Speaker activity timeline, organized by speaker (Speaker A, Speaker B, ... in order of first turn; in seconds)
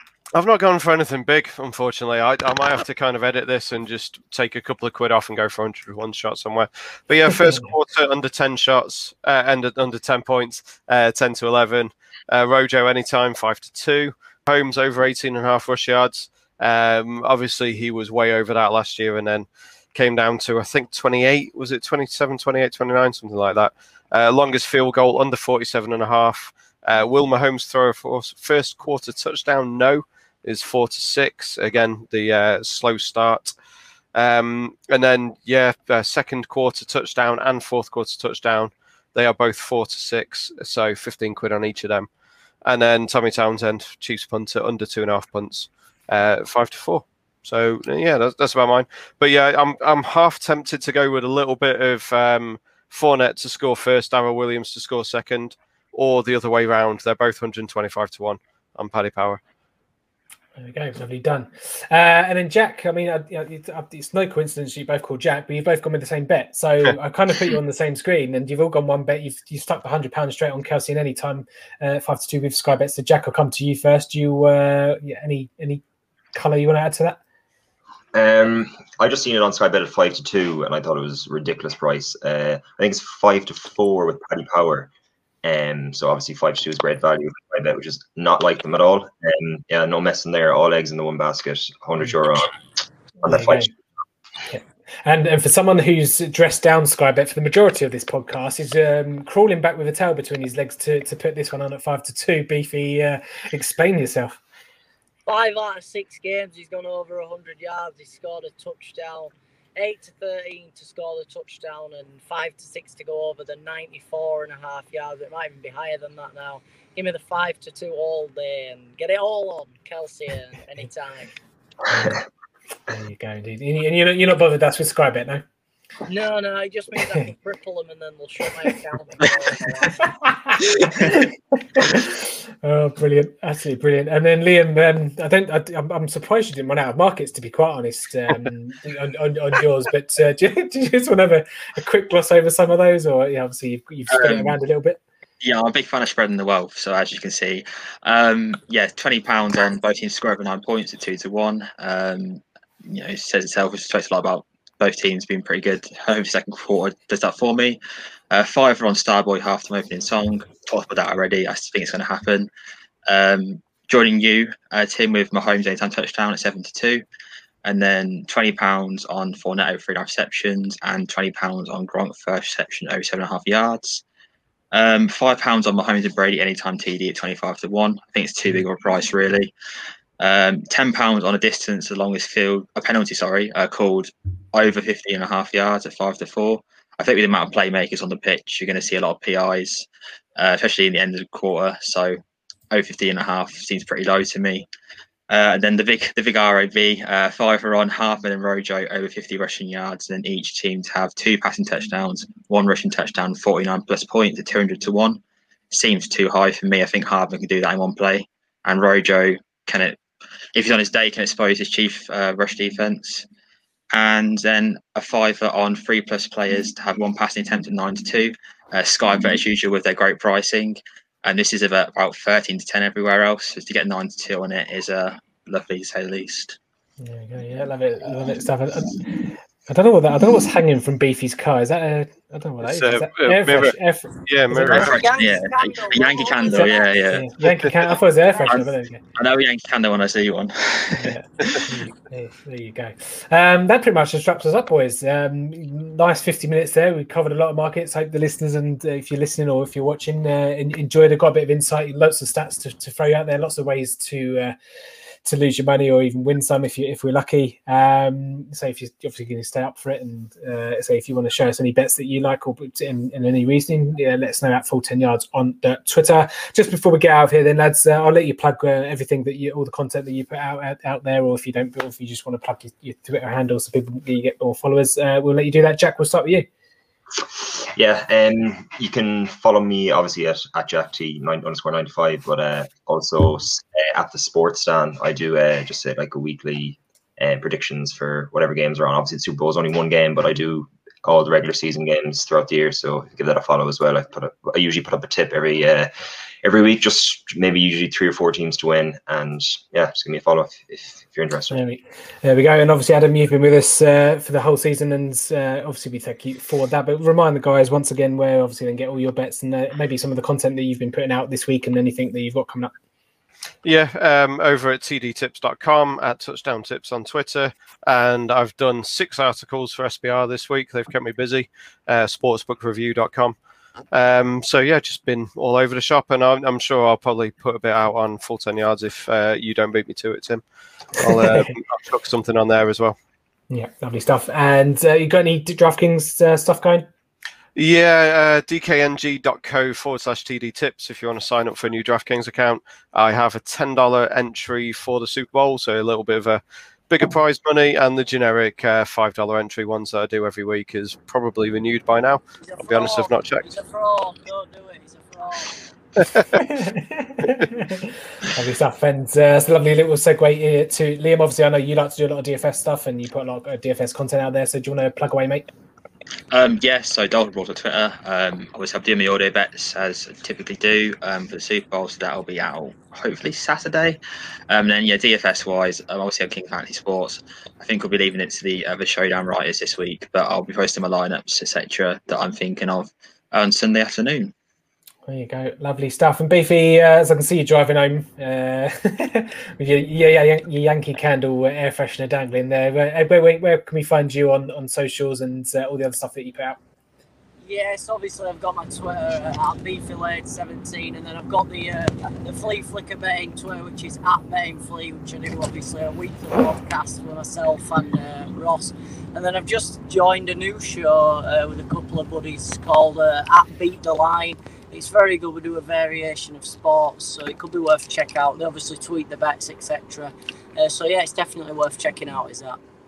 Speaker A: 0.3-33.5, 34.1-42.1, 42.6-59.4, 232.6-233.7, 234.2-234.9, 313.6-323.4, 323.9-330.4, 331.0-333.0, 337.6-353.5, 356.0-356.4
Speaker B: 60.6-75.8, 76.3-77.2, 93.2-93.7, 94.5-104.4, 121.9-122.2, 122.9-125.4, 130.3-145.0, 227.0-234.9, 236.4-239.0, 241.0-254.5, 255.2-276.4, 301.5-312.7, 331.1-331.4, 333.5-336.9, 356.4-365.5, 385.1-396.6
Speaker C: 78.1-84.9, 85.4-92.5, 93.2-93.7, 277.2-295.9, 296.4-301.6
Speaker D: 105.3-121.3, 126.1-130.1, 234.7-237.2, 238.2-238.6, 352.4-355.6, 397.4-422.6
Speaker E: 130.6-131.2, 144.1-144.6, 145.4-157.8, 158.3-162.5, 163.1-167.0, 167.6-174.0, 174.7-179.5, 180.2-189.9, 190.4-192.2, 192.7-194.7, 195.3-210.0, 210.5-213.2, 213.9-226.6, 234.6-237.3, 238.5-241.1, 366.3-374.0, 374.5-384.3